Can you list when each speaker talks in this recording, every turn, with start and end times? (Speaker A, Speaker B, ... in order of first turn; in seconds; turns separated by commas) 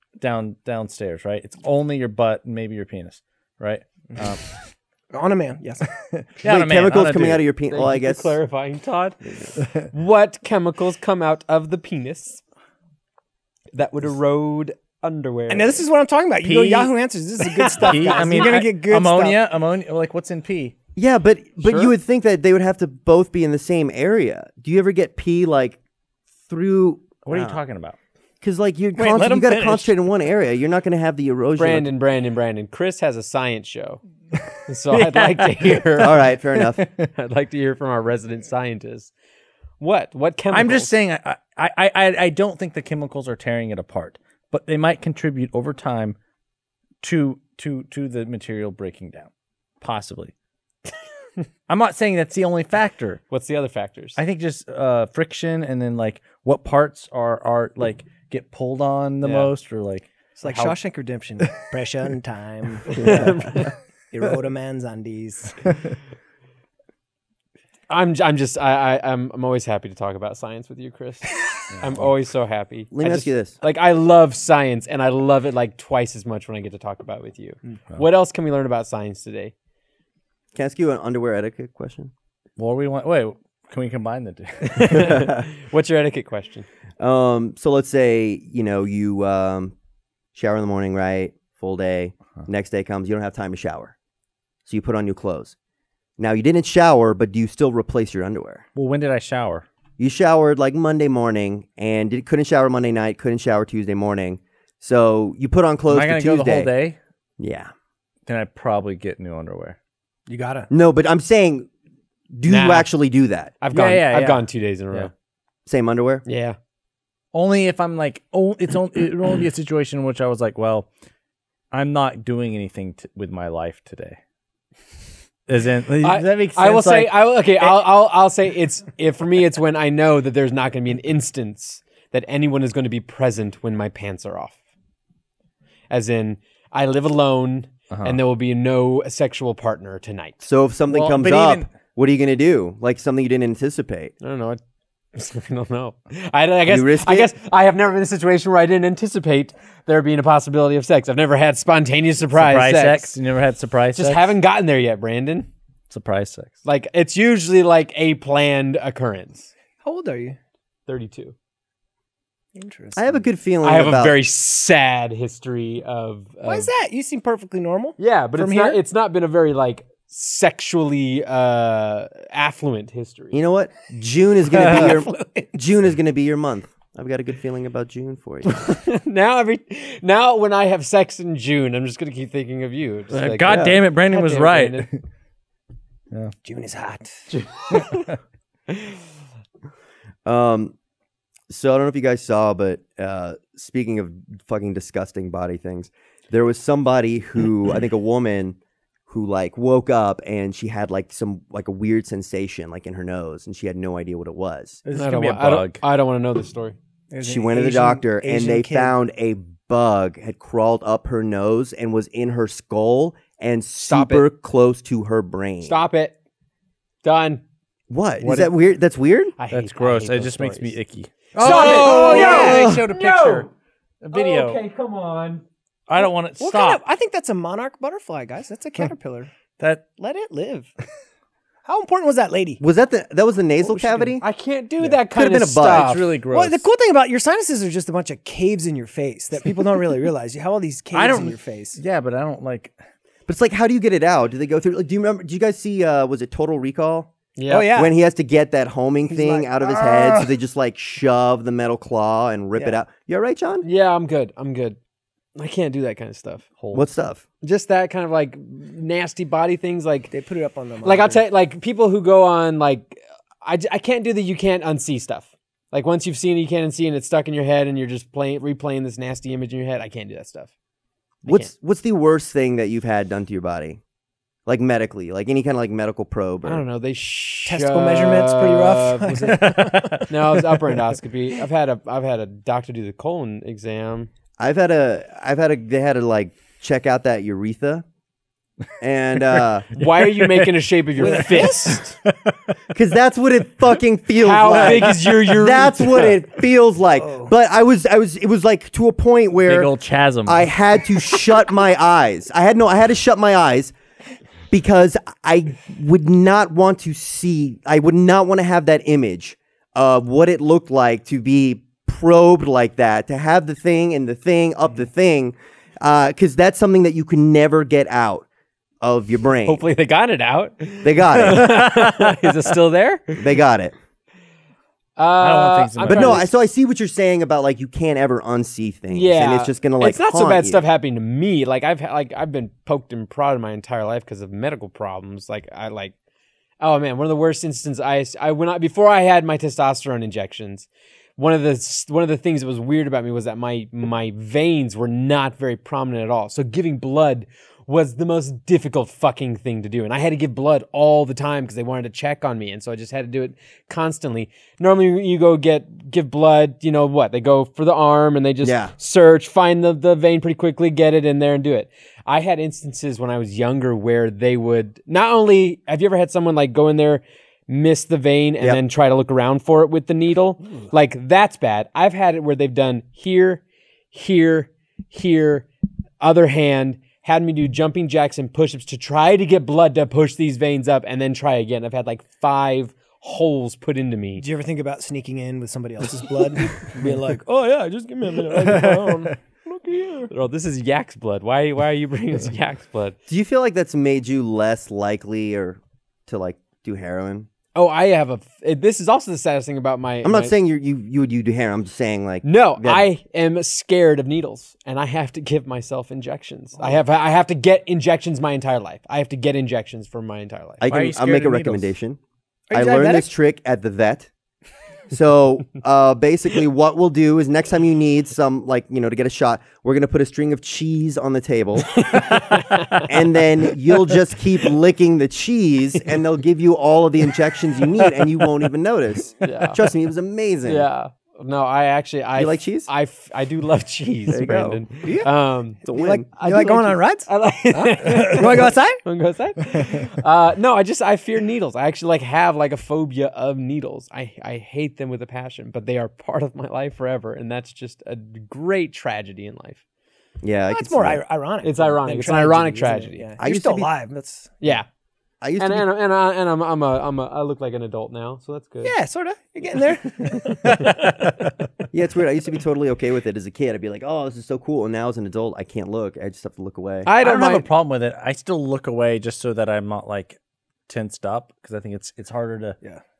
Speaker A: 0.2-4.4, Speaker B: 5.1-5.9, Speaker A: 6.1-7.4, Speaker C: 6.4-8.4, Speaker D: 7.7-12.4, Speaker D: 13.7-15.8, Speaker B: 15.5-19.4, Speaker A: 16.4-16.9, Speaker D: 17.6-18.5, Speaker A: 17.8-20.7, Speaker C: 20.9-25.8, Speaker D: 21.6-21.9, Speaker C: 26.5-27.6, Speaker A: 27.2-28.0, Speaker C: 28.4-31.9, Speaker B: 28.9-29.9, Speaker D: 31.6-34.0, Speaker D: 34.6-36.3, Speaker A: 34.9-36.0, Speaker C: 36.0-36.9, Speaker D: 37.0-39.1, Speaker D: 39.8-40.9, Speaker A: 40.5-46.2, Speaker A: 47.0-49.3, Speaker A: 49.8-50.3, Speaker A: 51.7-53.2, Speaker D: 53.3-54.2, Speaker A: 54.1-60.1, Speaker D: 59.2-59.5, Speaker B: 60.4-63.4, Speaker D: 60.4-60.8, Speaker D: 62.9-63.7, Speaker C: 63.0-63.3, Speaker B: 64.1-65.7, Speaker D: 67.9-79.5, Speaker A: 71.7-72.0, Speaker C: 72.9-73.5, Speaker C: 80.5-82.1, Speaker A: 82.6-85.3, Speaker D: 84.7-86.7, Speaker C: 87.0-89.7, Speaker C: 90.3-93.9, Speaker C: 94.7-95.5, Speaker C: 96.2-98.6, Speaker A: 98.7-99.6, Speaker C: 100.0-106.7, Speaker A: 105.9-107.0, Speaker C: 107.4-107.7, Speaker A: 108.2-109.8, Speaker B: 110.3-110.7, Speaker C: 110.7-111.7, Speaker C: 112.3-113.6, Speaker D: 112.5-112.9, Speaker D: 113.6-115.1, Speaker A: 113.7-115.1, Speaker C: 115.7-116.2, Speaker D: 116.2-116.6, Speaker A: 117.3-120.9, Speaker A: 121.7-124.2, Speaker A: 125.5-127.2, Speaker D: 126.0-134.6, Speaker D: 135.9-140.4, Speaker A: 137.9-138.2, Speaker C: 140.4-144.1, Speaker A: 140.9-141.7, Speaker D: 144.2-144.6, Speaker D: 145.1-153.1, Speaker C: 146.7-147.3, Speaker A: 152.3-154.3, Speaker D: 153.9-155.5, Speaker A: 155.9-156.5, Speaker D: 156.6-159.5, Speaker B: 159.8-160.4, Speaker D: 160.9-161.3, Speaker B: 162.5-163.3, Speaker C: 162.9-164.2, Speaker D: 163.6-166.7, Speaker B: 166.4-168.8, Speaker D: 168.0-173.3, Speaker C: 173.3-178.6, Speaker B: 174.5-175.5, Speaker A: 174.5-174.9, Speaker D: 178.4-184.9, Speaker A: 183.1-185.0, Speaker C: 183.4-183.8, Speaker B: 186.4-187.2, Speaker D: 187.3-188.1, Speaker C: 190.2-190.7, Speaker C: 191.5-198.6, Speaker C: 199.1-204.8, Speaker A: 204.8-205.8, Speaker D: 204.9-206.8, Speaker B: 207.1-208.9, Speaker C: 207.2-215.8, Speaker D: 213.8-214.2, Speaker D: 215.6-216.1, Speaker D: 217.0-217.4, Speaker C: 217.9-219.3, Speaker A: 218.2-218.5, Speaker D: 219.4-220.8, Speaker A: 219.5-223.5, Speaker D: 221.3-223.5, Speaker C: 221.4-222.8, Speaker A: 224.0-224.6, Speaker D: 224.1-225.4, Speaker A: 225.9-226.8, Speaker B: 226.4-229.3, Speaker A: 229.6-229.8, Speaker B: 230.0-230.7, Speaker B: 231.6-232.6, Speaker C: 232.6-234.2, Speaker B: 233.7-234.1, Speaker D: 234.2-236.1, Speaker C: 235.1-235.9, Speaker A: 235.7-236.7, Speaker B: 236.3-241.8, Speaker A: 240.9-242.8, Speaker C: 243.3-247.1, Speaker D: 247.3-247.7, Speaker B: 247.5-247.9, Speaker C: 247.7-253.7, Speaker B: 249.1-250.3, Speaker B: 252.6-252.8, Speaker D: 253.6-254.8, Speaker D: 255.3-256.4, Speaker A: 256.6-256.9, Speaker C: 256.7-257.2, Speaker D: 257.4-260.1, Speaker B: 260.1-261.2, Speaker D: 260.8-270.5, Speaker C: 271.2-273.8, Speaker D: 271.2-271.5, Speaker C: 274.4-276.6, Speaker D: 276.4-284.1, Speaker B: 277.4-280.1, Speaker A: 279.3-280.4, Speaker C: 284.4-287.8, Speaker C: 288.8-289.7, Speaker D: 289.7-291.9, Speaker A: 289.7-292.5, Speaker B: 291.0-291.8, Speaker C: 292.7-299.7, Speaker D: 294.2-296.1, Speaker A: 294.5-295.2, Speaker B: 297.0-297.3, Speaker A: 299.5-300.5, Speaker C: 300.2-303.7, Speaker C: 304.5-318.2, Speaker C: 318.8-319.6, Speaker D: 319.4-323.3, Speaker C: 320.8-321.7, Speaker C: 323.2-323.7, Speaker D: 325.0-326.3, Speaker A: 325.2-326.3, Speaker C: 325.8-330.6, Speaker D: 328.9-335.9, Speaker D: 336.6-375.5, Speaker C: 358.4-358.7, Speaker D: 376.0-384.2, Speaker B: 384.2-390.1, Speaker A: 388.3-389.1, Speaker D: 390.1-393.0, Speaker C: 393.1-397.3, Speaker D: 397.5-400.3, Speaker C: 400.0-402.8, Speaker D: 402.2-410.6, Speaker C: 410.6-412.0, Speaker A: 410.7-411.7, Speaker B: 412.5-413.1, Speaker C: 412.5-414.1, Speaker C: 414.9-430.7, Speaker D: 421.7-422.9, Speaker D: 429.2-429.6, Speaker D: 430.4-435.6, Speaker C: 432.1-432.7, Speaker C: 434.1-434.9, Speaker B: 434.8-435.1, Speaker C: 435.6-436.1, Speaker B: 435.7-438.8, Speaker D: 436.1-449.6, Speaker C: 450.2-451.0, Speaker B: 450.5-454.4, Speaker D: 451.4-453.1, Speaker C: 453.2-453.7, Speaker D: 454.4-454.6, Speaker C: 455.2-455.7, Speaker D: 455.4-458.7, Speaker B: 458.6-460.6, Speaker D: 459.9-460.8, Speaker A: 460.4-461.3, Speaker C: 461.7-466.9, Speaker D: 466.8-467.4, Speaker A: 467.0-472.6